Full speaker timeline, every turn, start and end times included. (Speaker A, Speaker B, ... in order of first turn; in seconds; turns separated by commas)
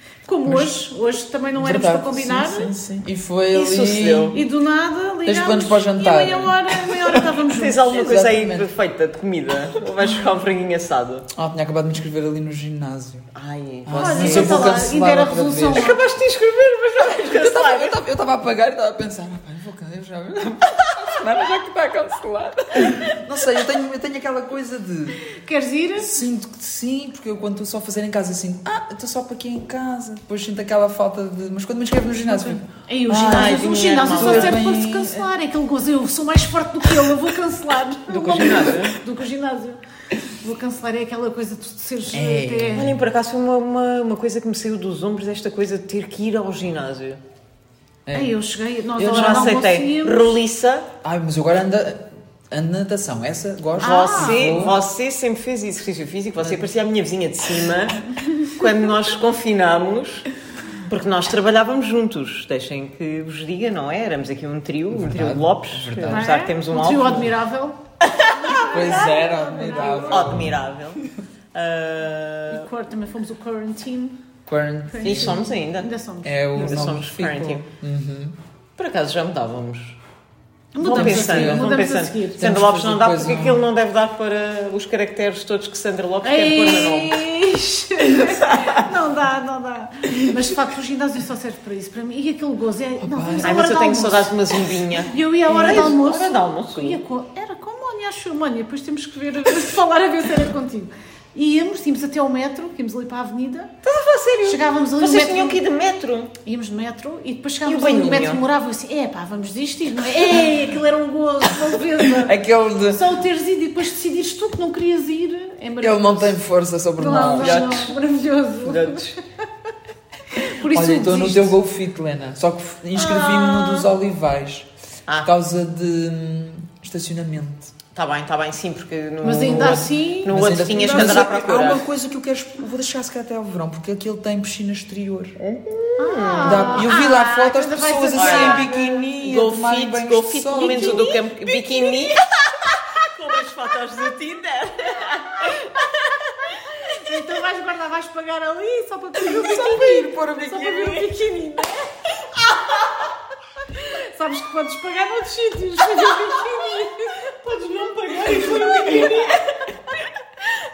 Speaker A: 0.3-2.7, Speaker B: 0.5-0.8, Speaker B: 1.6-4.4, Speaker C: 3.5-4.4, Speaker A: 4.3-8.0, Speaker B: 5.3-7.3, Speaker C: 7.5-11.3, Speaker B: 7.9-8.7, Speaker B: 11.3-13.3, Speaker C: 13.3-14.8, Speaker B: 13.8-15.9, Speaker A: 14.0-16.0, Speaker C: 15.7-18.0, Speaker B: 17.3-25.2, Speaker A: 25.2-26.2, Speaker B: 26.0-35.3, Speaker A: 32.2-42.9, Speaker C: 33.1-34.6, Speaker C: 38.1-39.0, Speaker B: 42.1-43.0, Speaker C: 42.7-47.2, Speaker B: 48.1-48.4, Speaker A: 48.1-50.4, Speaker C: 49.0-50.9, Speaker B: 49.0-49.4, Speaker B: 51.0-54.8, Speaker C: 53.8-60.3, Speaker A: 53.8-54.7, Speaker B: 56.4-56.6, Speaker C: 60.8-67.3, Speaker B: 64.9-66.3, Speaker A: 66.1-70.5, Speaker C: 68.1-69.0, Speaker B: 68.7-70.6, Speaker C: 69.9-72.7, Speaker A: 72.5-74.2, Speaker B: 74.5-75.5, Speaker A: 74.9-76.4, Speaker C: 75.0-75.9, Speaker B: 76.2-78.4, Speaker C: 76.5-77.7, Speaker C: 78.8-80.0, Speaker A: 80.7-82.4, Speaker C: 80.8-87.2, Speaker B: 80.8-81.7, Speaker B: 82.4-83.6, Speaker A: 86.2-94.3, Speaker B: 93.0-93.7, Speaker C: 93.4-97.0, Speaker A: 95.0-103.7, Speaker C: 103.8-106.3, Speaker A: 104.5-105.6, Speaker A: 106.4-112.3, Speaker C: 107.7-108.4, Speaker B: 112.0-113.0, Speaker A: 112.9-116.4, Speaker B: 115.8-117.8, Speaker A: 117.0-119.1, Speaker C: 117.3-118.0, Speaker C: 118.6-119.2, Speaker A: 120.3-121.6, Speaker B: 120.6-124.7, Speaker A: 123.0-123.8, Speaker C: 125.1-125.3, Speaker B: 125.2-127.7, Speaker C: 127.9-131.9, Speaker A: 129.2-131.2, Speaker B: 130.3-135.4, Speaker C: 135.4-136.9, Speaker A: 136.0-139.1, Speaker B: 136.4-141.1, Speaker C: 138.1-142.3, Speaker A: 140.6-141.9, Speaker C: 142.9-146.5, Speaker A: 146.8-151.9, Speaker B: 149.2-151.1, Speaker C: 152.5-152.9, Speaker A: 153.8-157.3, Speaker C: 157.4-159.4, Speaker A: 158.3-159.3